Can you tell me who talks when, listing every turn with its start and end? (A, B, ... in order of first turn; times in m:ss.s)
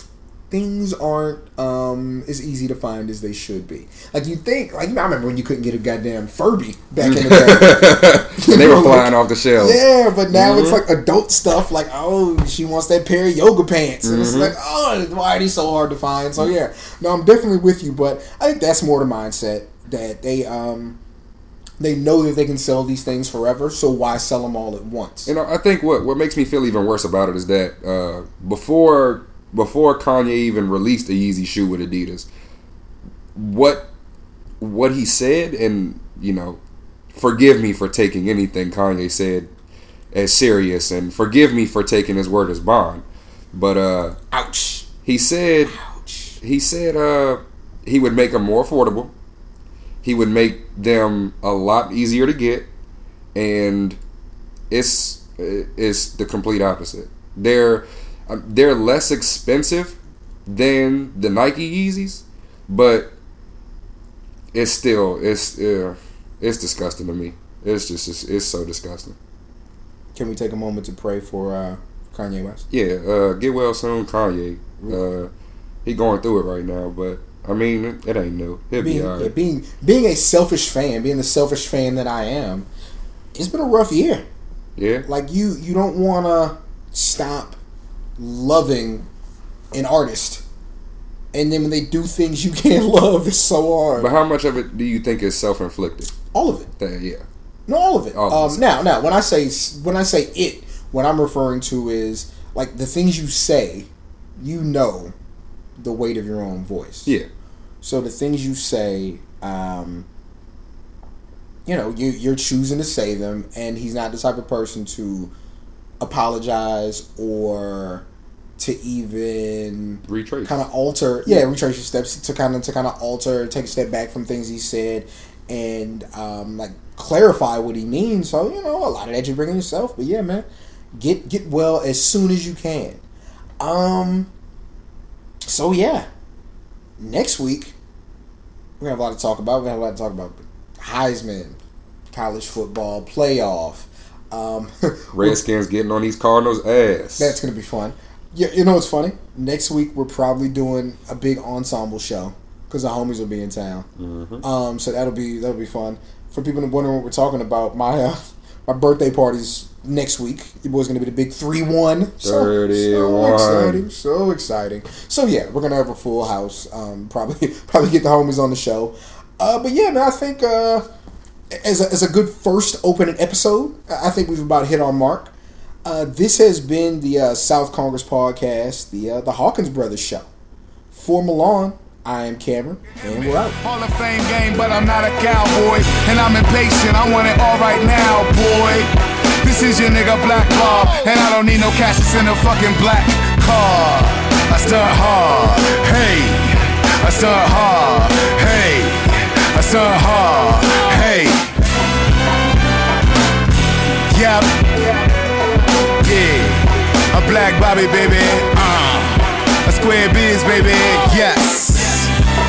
0:00.5-0:21.0 A
0:07.0-0:10.8 B
0:14.0-0:14.5 B
0:21.8-0:25.3 A
0:25.3-0:32.3 B
0:33.4-0:33.9 B
0:34.6-0:36.6 B
0:37.1-0:39.5 B
0:40.1-0:44.2 B
0:44.3-0:44.9 A
0:45.0-0:45.8 B
0:45.7-0:46.4 A
0:46.4-0:49.1 B
0:50.0-0:52.7 B
0:53.4-0:54.0 B
0:54.7-1:03.1 B
1:04.5-1:09.2 B
1:10.2-1:12.7 A
1:12.7-1:15.3 B
1:15.8-1:19.3 B
1:18.8-1:22.7 A
1:23.4-1:24.2 A
1:24.8-1:25.1 B
1:25.0-1:27.6 A
1:28.2-1:29.1 A
1:29.7-1:30.4 A
1:31.3-1:34.1 A
1:34.0-1:36.1 B
1:36.3-1:36.7 A
1:36.8-1:37.2 B
1:37.7-1:45.1 A
1:38.1-1:38.6 B
1:45.8-1:47.1 A
1:47.8-1:50.1 A
1:51.7-1:55.3 A
1:56.0-1:58.0 A
1:58.6-2:13.0 A
2:00.1-2:00.6 B
2:13.6-2:14.3 A
2:15.5-2:16.1 A
2:17.0-2:17.8 A
2:18.8-2:21.6 A
2:22.1-2:25.4 A
2:25.1-2:27.4 B
2:27.2-2:33.9 A
2:34.0-2:34.4 B
2:34.4-2:50.9 A
2:42.2-2:43.8 B
2:51.5-2:55.3 A
2:55.8-3:00.3 A
3:00.9-3:03.6 A
3:03.3-3:21.7 C
3:24.1-3:25.0 C
3:25.8-3:32.2 C